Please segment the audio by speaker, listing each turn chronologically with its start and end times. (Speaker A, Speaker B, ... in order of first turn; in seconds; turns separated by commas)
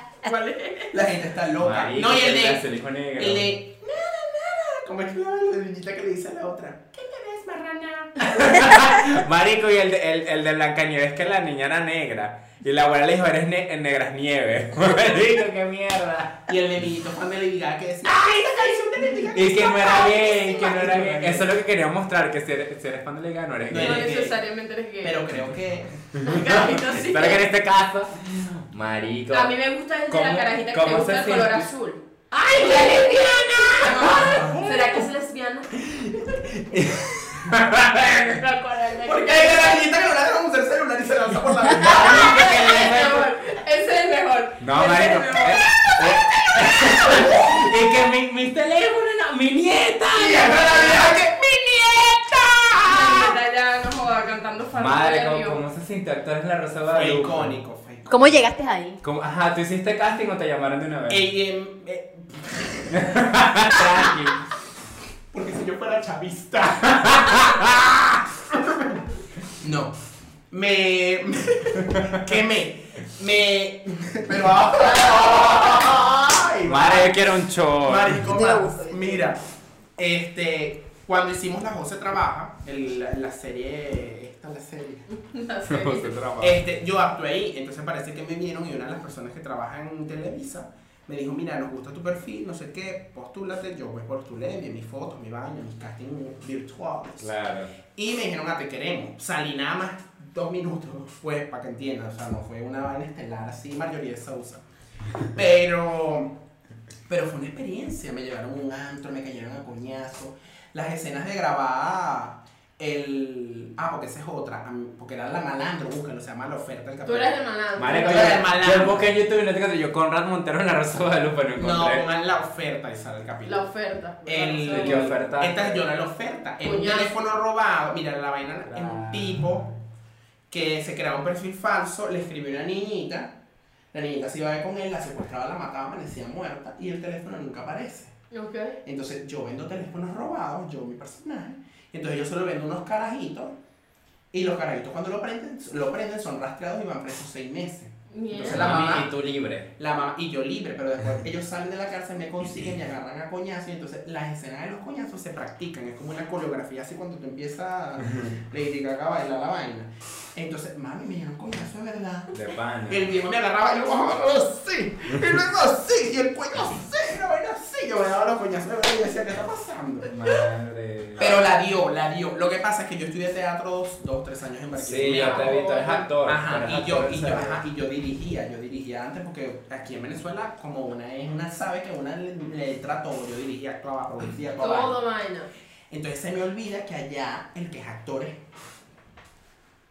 Speaker A: 0.2-0.9, Speaker B: 0.9-2.6, Speaker C: 1.6-3.5, Speaker B: 3.2-8.8, Speaker C: 8.3-16.4, Speaker B: 16.5-21.5, Speaker C: 19.3-24.1, Speaker B: 23.7-24.4, Speaker A: 23.8-25.2, Speaker B: 25.0-26.1, Speaker C: 26.2-29.6, Speaker A: 26.2-27.4, Speaker A: 29.3-32.0, Speaker C: 30.1-31.7, Speaker C: 32.3-34.5, Speaker A: 32.5-35.8, Speaker B: 33.8-35.1, Speaker C: 35.9-38.5, Speaker A: 38.9-39.9, Speaker B: 39.0-42.7, Speaker C: 41.8-43.3, Speaker A: 42.0-45.7, Speaker C: 44.6-52.0, Speaker B: 46.0-47.6, Speaker B: 50.1-53.3, Speaker A: 52.8-55.6, Speaker C: 54.8-57.5, Speaker B: 56.9-58.4, Speaker D: 58.1-59.0, Speaker C: 59.0-61.3, Speaker B: 61.1-63.2, Speaker C: 62.9-64.4, Speaker B: 63.7-64.2, Speaker B: 65.3-69.0, Speaker C: 67.1-67.5, Speaker B: 69.6-70.0, Speaker B: 70.5-79.4, Speaker C: 76.7-78.3, Speaker D: 78.3-79.3, Speaker B: 80.0-85.1, Speaker A: 85.1-86.2, Speaker C: 85.7-86.6, Speaker B: 86.4-97.3, Speaker C: 97.2-97.7, Speaker B: 97.9-104.6, Speaker B: 105.3-106.4, Speaker B: 107.1-117.4, Speaker A: 117.0-118.5, Speaker C: 117.8-122.0, Speaker B: 117.9-119.1, Speaker B: 121.6-123.7, Speaker A: 123.5-125.1, Speaker B: 124.2-129.7, Speaker C: 124.7-125.8, Speaker A: 126.6-127.1, Speaker C: 128.7-129.5, Speaker B: 130.5-133.3, Speaker B: 133.9-138.1, Speaker A: 138.3-138.8, Speaker B: 138.8-143.6, Speaker B: 144.3-149.1, Speaker A: 148.1-148.9, Speaker C: 148.5-149.7, Speaker B: 149.8-170.1, Speaker C: 162.3-163.2, Speaker C: 170.1-171.4, Speaker B: 171.2-185.0, Speaker C: 174.8-177.6, Speaker A: 175.2-176.1, Speaker A: 184.6-185.5, Speaker B: 185.9-188.4